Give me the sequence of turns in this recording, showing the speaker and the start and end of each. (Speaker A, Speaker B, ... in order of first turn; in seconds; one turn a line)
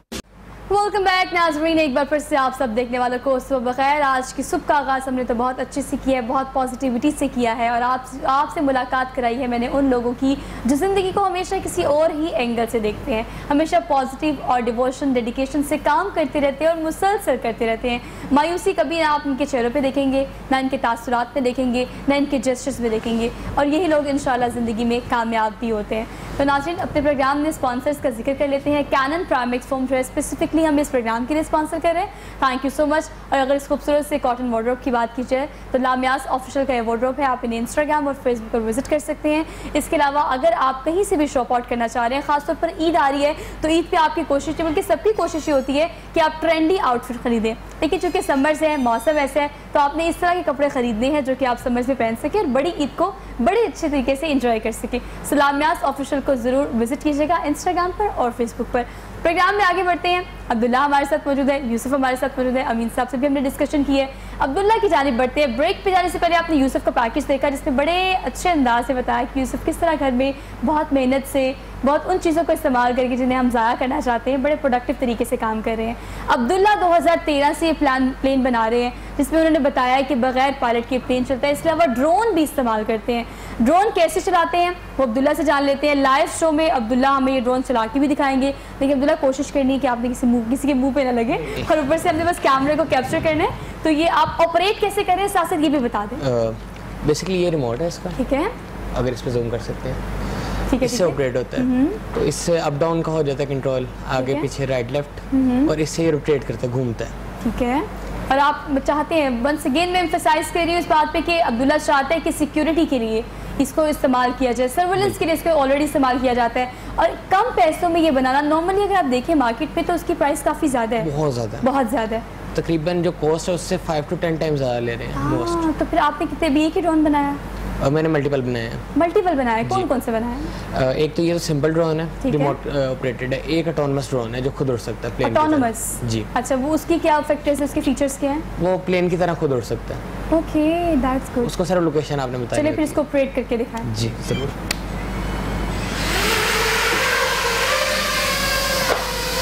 Speaker A: 0.7-96.2
Speaker B: 96.2-98.2
Speaker A: 98.2-98.5
Speaker B: 98.9-100.0
Speaker A: 100.7-102.0
Speaker B: 100.8-107.1
Speaker A: 104.2-104.5
Speaker A: 105.3-105.7
Speaker A: 107.4-121.1
Speaker B: 121.0-121.7
Speaker A: 121.6-122.2
Speaker B: 122.5-125.7
Speaker A: 125.2-127.4
Speaker B: 127.8-128.8
Speaker A: 128.9-130.5
Speaker B: 129.6-129.9
Speaker B: 130.7-136.3
Speaker A: 132.2-132.6
Speaker A: 135.2-138.4
Speaker B: 138.6-140.0
Speaker A: 140.3-141.5
Speaker B: 141.4-143.0
Speaker A: 142.5-143.9
Speaker B: 143.8-144.6